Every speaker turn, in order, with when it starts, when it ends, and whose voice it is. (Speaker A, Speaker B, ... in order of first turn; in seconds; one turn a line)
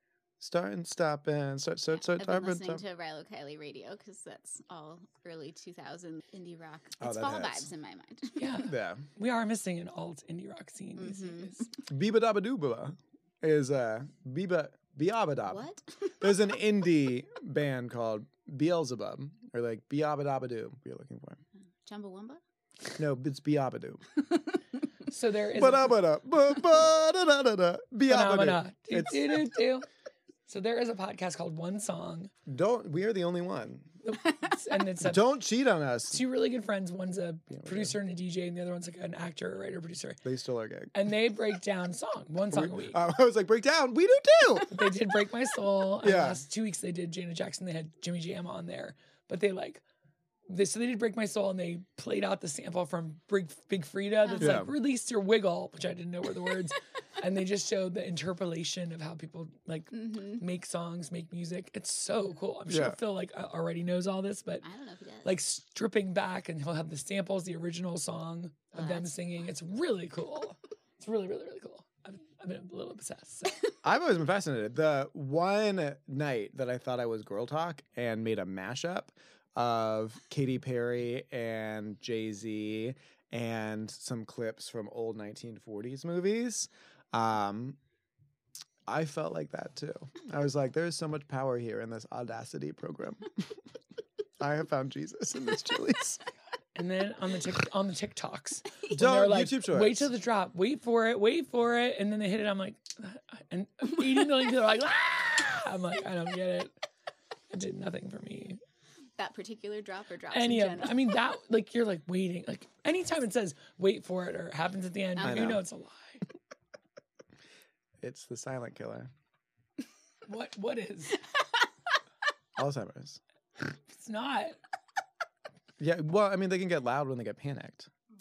Speaker A: 0.4-2.8
Speaker B: 2.1-8.5
Speaker A: 7.0-7.7
Speaker C: 8.4-11.7
Speaker A: 8.6-9.1
Speaker B: 11.0-11.7
Speaker A: 11.9-21.4
Speaker B: 15.5-16.3
Speaker B: 21.9-22.4
Speaker A: 23.0-24.0
Speaker C: 25.1-26.1
Speaker A: 25.6-29.4
Speaker C: 28.1-29.9
Speaker C: 30.5-32.3
Speaker A: 32.5-34.0
Speaker C: 34.0-35.2
Speaker A: 35.0-36.2
Speaker C: 36.1-40.2
Speaker A: 37.5-38.0
Speaker A: 40.2-40.9
Speaker C: 40.9-43.0
Speaker A: 42.5-44.7
Speaker C: 44.7-49.8
Speaker A: 46.0-46.4
Speaker C: 50.5-64.7
Speaker B: 54.2-54.5
Speaker A: 54.4-54.7
Speaker B: 59.9-60.4
Speaker A: 62.7-63.0
Speaker B: 64.6-65.4
Speaker C: 65.2-73.6
Speaker B: 68.8-69.1
Speaker A: 73.8-87.8
Speaker A: 88.9-93.5
Speaker A: 94.4-96.2
Speaker C: 96.8-106.7
Speaker A: 98.9-100.1
Speaker C: 107.5-108.6
Speaker B: 109.2-111.1
Speaker C: 110.3-116.2
Speaker B: 115.2-115.5
Speaker A: 115.2-115.6
Speaker A: 118.0-119.1
Speaker C: 120.3-121.2
Speaker A: 122.6-123.2
Speaker C: 123.9-124.6
Speaker A: 125.8-127.9